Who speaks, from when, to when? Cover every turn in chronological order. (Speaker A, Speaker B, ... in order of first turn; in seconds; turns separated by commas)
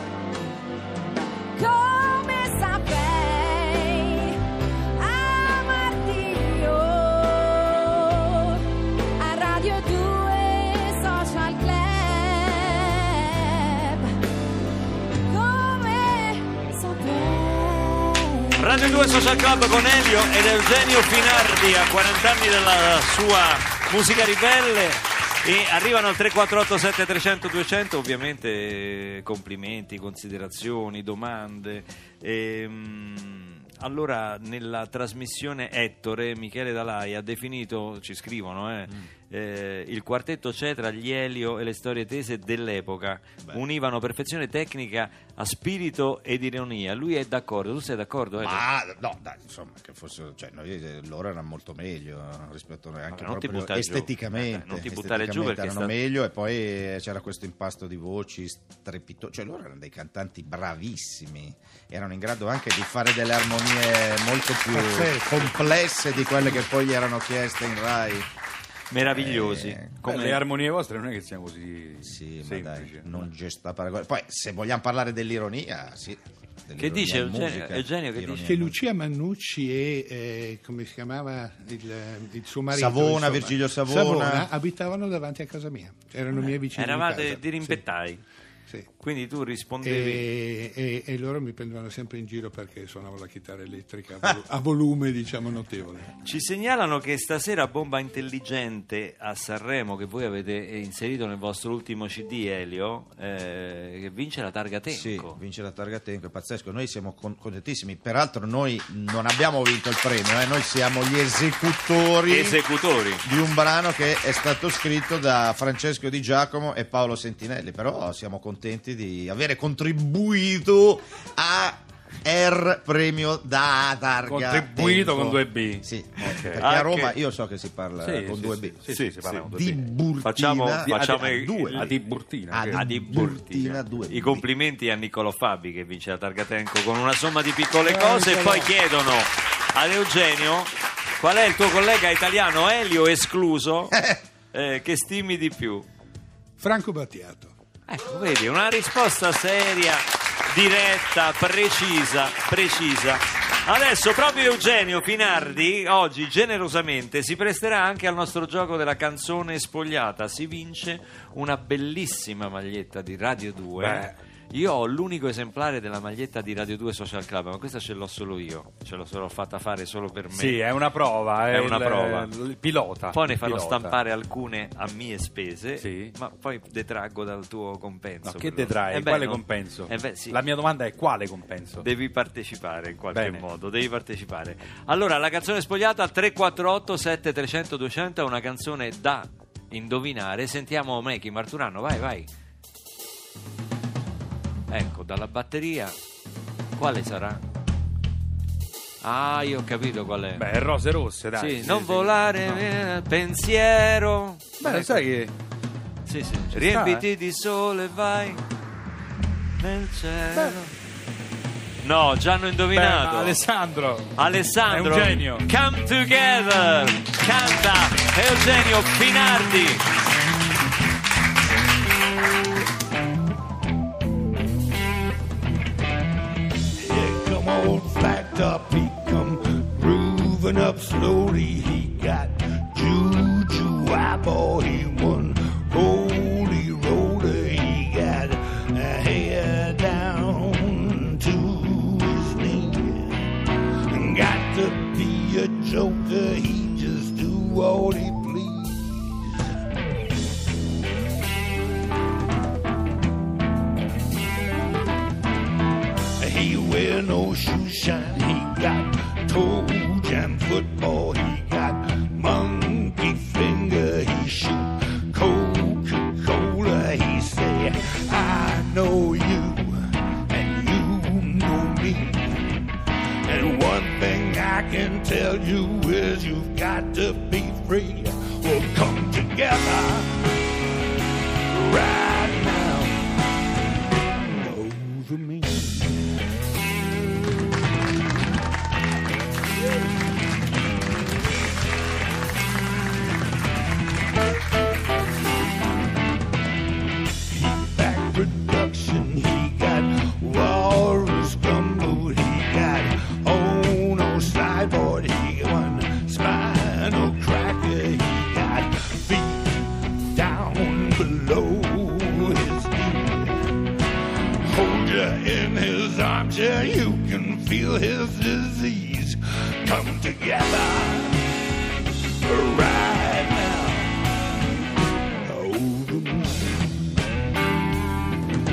Speaker A: 1.6-4.4, Speaker A: 5.0-8.7, Speaker A: 9.2-14.2, Speaker A: 15.3-19.2, Speaker B: 18.6-48.6, Speaker C: 48.4-68.3, Speaker B: 53.1-55.9, Speaker D: 64.7-65.4, Speaker B: 68.9-70.4, Speaker C: 69.0-69.9, Speaker E: 70.0-73.1, Speaker C: 72.0-78.8, Speaker B: 76.8-78.5, Speaker D: 78.4-87.8, Speaker C: 82.7-84.5, Speaker B: 86.3-88.2, Speaker B: 89.0-90.3, Speaker D: 89.8-96.1, Speaker B: 96.2-105.4, Speaker C: 104.9-112.6, Speaker B: 112.3-113.2, Speaker C: 113.2-131.9, Speaker E: 124.3-126.6, Speaker B: 126.6-127.2, Speaker E: 128.0-129.8, Speaker B: 128.9-129.3, Speaker B: 130.2-131.9, Speaker E: 130.8-133.7, Speaker C: 132.5-134.4, Speaker B: 132.7-144.0, Speaker D: 137.8-138.7, Speaker C: 143.9-144.2, Speaker B: 144.5-145.9, Speaker D: 146.6-147.5, Speaker B: 147.9-170.6, Speaker E: 163.8-164.1, Speaker E: 170.3-174.0, Speaker B: 171.5-172.3, Speaker B: 173.1-180.4, Speaker E: 175.8-176.2, Speaker E: 178.2-181.9, Speaker B: 181.8-192.3, Speaker E: 183.1-183.4, Speaker B: 194.7-195.9, Speaker B: 196.8-197.4, Speaker B: 199.0-200.4, Speaker E: 200.3-202.7, Speaker B: 201.4-205.0, Speaker E: 204.6-205.3, Speaker B: 206.1-208.4, Speaker E: 206.5-207.1, Speaker B: 209.6-210.7, Speaker B: 211.8-213.4, Speaker E: 212.7-214.2, Speaker B: 214.2-219.8, Speaker E: 214.7-215.5, Speaker F: 226.8-243.3, Speaker F: 243.9-249.2, Speaker F: 256.2-272.7, Speaker F: 273.3-280.3, Speaker F: 281.5-283.1, Speaker F: 284.3-286.2, Speaker F: 297.3-313.6, Speaker F: 314.4-321.3, Speaker F: 322.2-324.0, Speaker F: 325.2-326.7